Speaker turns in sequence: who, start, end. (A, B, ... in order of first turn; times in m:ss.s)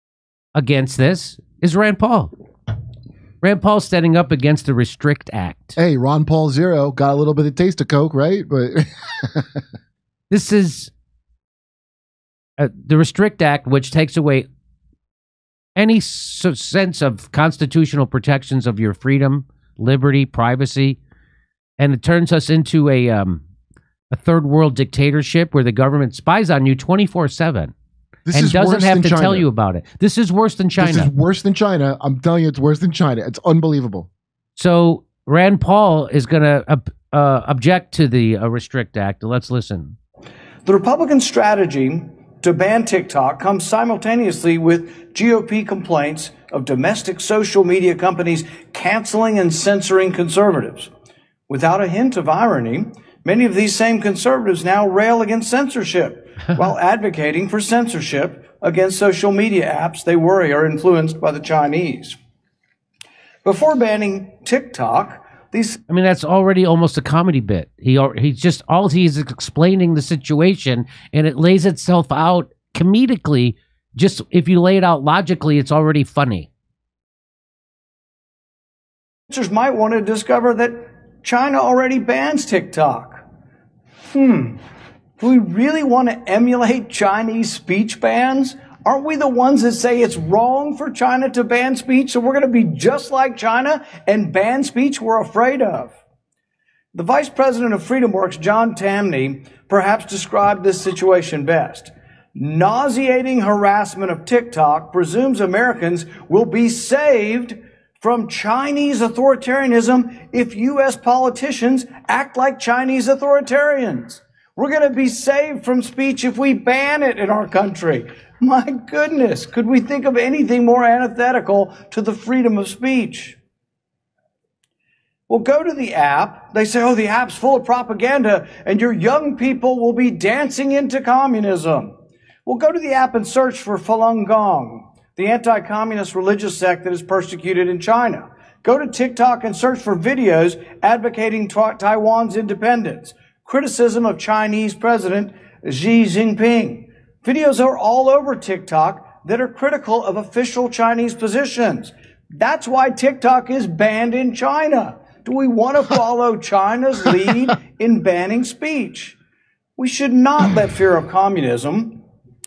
0:00.5-0:02.3 A
0:03.4-0:05.8 A
0:05.8-0:09.6 B
0:10.3-0:10.9 A
0:12.6-0:14.5 A
0:15.8-0:21.0 A
0:21.8-0:23.4 A
0:24.1-0:27.7 A
0:28.2-0:29.5 B
0:28.3-0:31.1 A
0:30.8-0:34.1 B
0:34.6-0:40.0 A
0:40.6-0:50.9 C
0:51.5-1:02.2 C
1:03.4-1:05.8 C
1:05.9-1:16.5 A
1:19.3-1:23.2 C
1:24.1-1:24.6 C
1:25.2-1:36.0 C
1:36.9-2:03.4 C
2:05.3-2:11.9 C
2:12.4-2:39.2 C
2:39.8-2:42.0 C